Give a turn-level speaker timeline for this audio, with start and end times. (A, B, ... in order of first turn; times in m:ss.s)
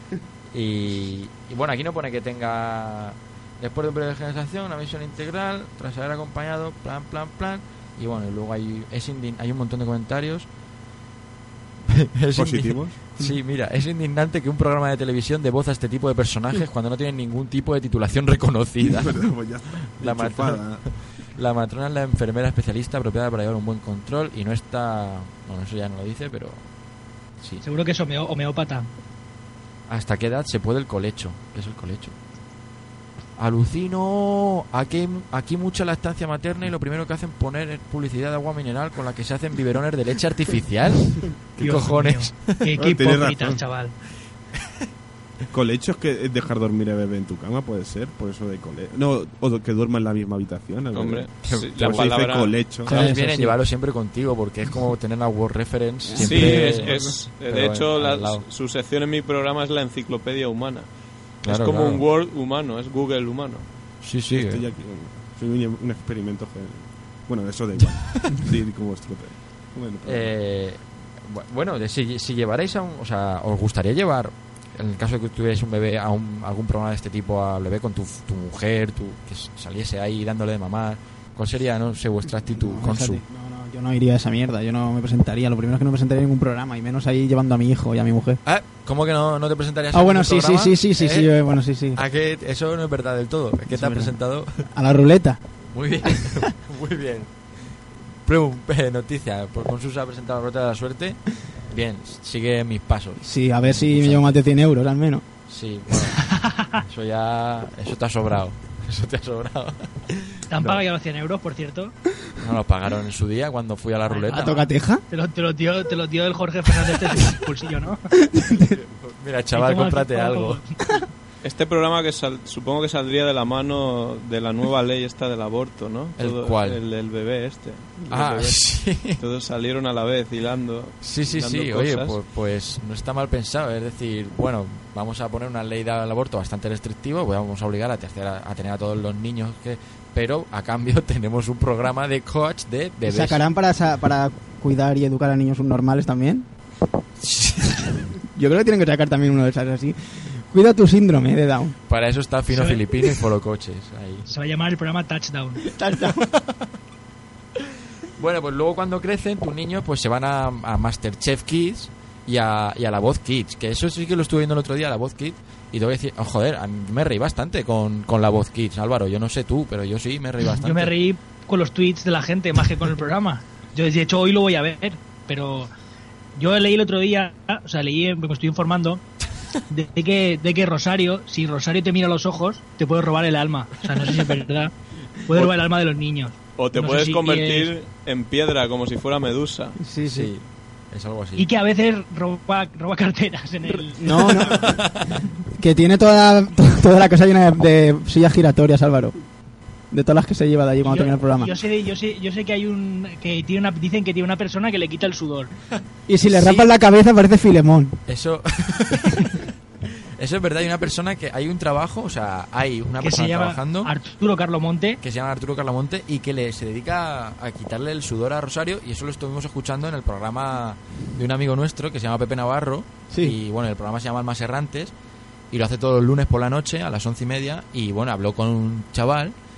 0:00.5-0:10.5 A
0:11.9-0:19.3 A
0:12.4-0:13.4 B
0:18.8-0:20.8 B
0:20.0-0:26.6 A
0:27.6-0:28.9 C
0:29.9-0:32.1 A
0:33.4-0:42.6 A
0:41.6-0:43.9 C
0:42.8-0:43.6 B
0:45.5-0:53.0 B
0:50.9-0:52.7 D
0:51.4-0:52.1 A
0:52.8-0:53.6 E
0:52.9-0:58.4 A
0:56.1-0:57.1 E
0:56.2-1:00.9 D
1:01.4-1:02.0 A
1:01.5-1:03.7 D
1:04.0-1:04.6 A
1:04.3-1:10.3 B
1:10.0-1:23.2 A
1:22.6-1:28.4 E
1:28.4-1:31.3 A
1:29.9-1:32.0 E
1:32.0-1:34.6 A
1:33.7-1:34.2 E
1:34.7-1:35.4 E
1:35.7-1:37.3 A
1:36.1-1:36.4 E
1:38.2-1:44.3 A
1:43.2-1:45.2 E
1:45.5-1:50.8 A
1:46.2-1:46.8 C
1:50.5-1:51.9 C
1:52.4-1:54.6 A
1:54.1-1:58.0 C
1:54.3-1:55.0 E
1:58.1-1:58.8 E
1:58.7-2:00.6 A
1:59.6-2:00.8 C
2:01.4-2:08.6 D
2:06.2-2:06.8 A
2:08.1-2:09.2 A
2:09.2-2:12.2 D
2:11.0-2:23.4 A
2:23.0-2:26.5 E
2:27.2-2:27.9 A
2:28.3-2:31.8 E
2:31.9-2:34.3 A
2:32.5-2:32.8 C
2:34.3-2:35.6 C
2:35.6-2:36.3 E
2:36.3-2:36.6 A
2:38.2-2:50.9 A
2:50.5-2:55.7 C
2:56.4-2:59.0 C
2:59.7-3:04.7 C
3:05.3-3:07.7 C
3:06.6-3:09.8 D
3:09.8-3:10.3 E
3:10.1-3:11.5 A
3:11.4-3:14.3 C
3:14.0-3:14.8 E
3:14.4-3:15.1 A
3:15.6-3:19.1 E
3:19.9-3:21.6 E
3:20.8-3:25.5 C
3:26.1-3:28.0 E
3:26.3-3:26.7 A
3:28.1-3:29.4 A
3:30.2-3:33.9 A
3:33.0-3:35.0 C
3:35.0-3:44.9 A
3:43.1-3:43.4 E
3:45.5-3:49.3 A